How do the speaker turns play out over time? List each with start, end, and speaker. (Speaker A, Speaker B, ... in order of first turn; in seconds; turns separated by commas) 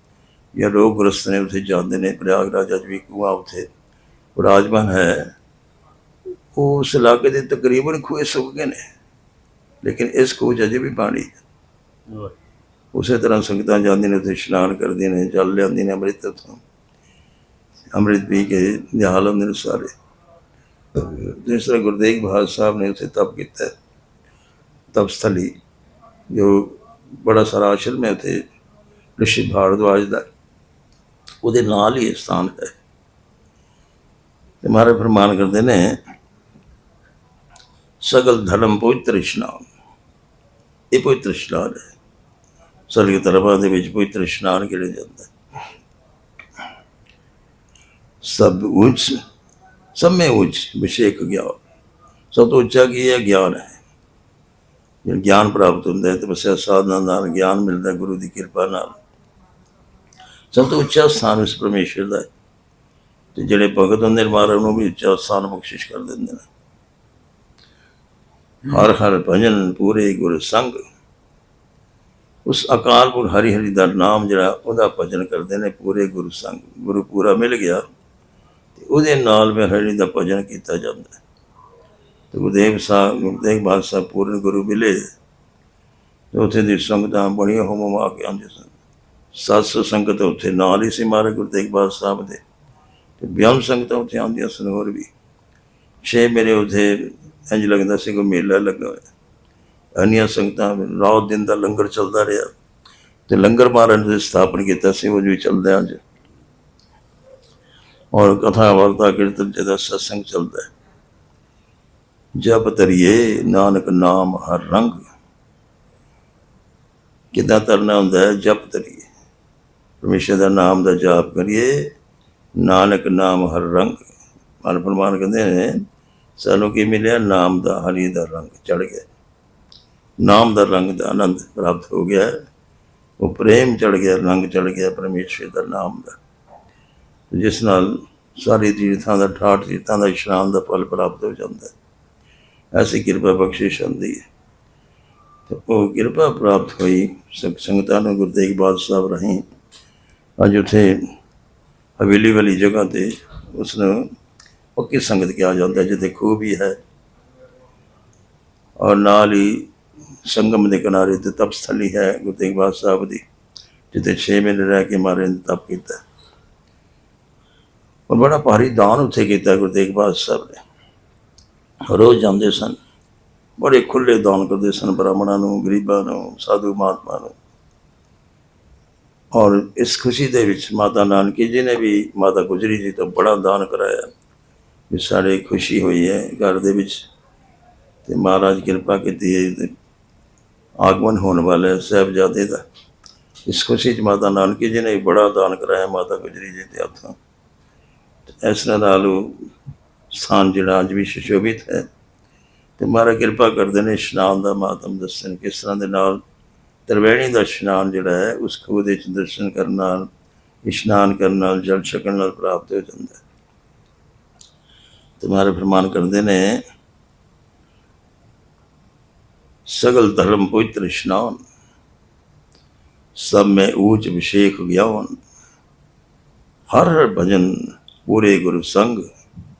Speaker A: 0.5-3.7, Speaker A: 4.3-5.3, Speaker A: 6.5-8.8, Speaker A: 9.8-11.4, Speaker A: 12.9-16.6, Speaker A: 17.9-19.9, Speaker A: 20.9-23.7, Speaker A: 24.9-25.6, Speaker A: 26.3-28.4, Speaker A: 29.2-30.3, Speaker A: 31.4-32.8, Speaker A: 34.6-36.0, Speaker A: 38.0-39.7, Speaker A: 40.9-41.9, Speaker A: 42.9-45.3, Speaker A: 48.2-49.2, Speaker A: 49.9-51.6, Speaker A: 52.3-53.8, Speaker A: 55.0-59.0, Speaker A: 60.5-62.3, Speaker A: 63.4-66.5, Speaker A: 68.7-70.8, Speaker A: 72.5-77.8, Speaker A: 78.8-81.2, Speaker A: 82.3-85.1, Speaker A: 86.3-88.8, Speaker A: 89.3-92.4, Speaker A: 93.2-95.1, Speaker A: 96.0-99.1, Speaker A: 100.0-102.5, Speaker A: 103.3-106.0, Speaker A: 108.1-110.7, Speaker A: 112.3-115.0, Speaker A: 117.3-119.1, Speaker A: 120.0-121.9, Speaker A: 122.6-125.8, Speaker A: 126.4-129.1, Speaker A: 130.2-132.4, Speaker A: 133.2-136.2, Speaker A: 137.3-141.7, Speaker A: 142.7-144.2, Speaker A: 145.5-149.4, Speaker A: 150.4-151.1, Speaker A: 152.0-154.1, Speaker A: 154.8-156.8, Speaker A: 158.8-159.7, Speaker A: 160.2-163.2, Speaker A: 163.9-166.0, Speaker A: 168.1-170.6, Speaker A: 171.9-172.8, Speaker A: 173.6-177.4, Speaker A: 179.3-184.1, Speaker A: 184.9-187.1, Speaker A: 188.1-189.7, Speaker A: 190.8-192.7, Speaker A: 193.5-197.2, Speaker A: 198.4-199.5, Speaker A: 200.1-201.9, Speaker A: 202.8-206.2, Speaker A: 206.9-210.1, Speaker A: 210.6-213.2, Speaker A: 215.2-216.6, Speaker A: 219.7-221.4, Speaker A: 223.2-225.2, Speaker A: 226.7-229.1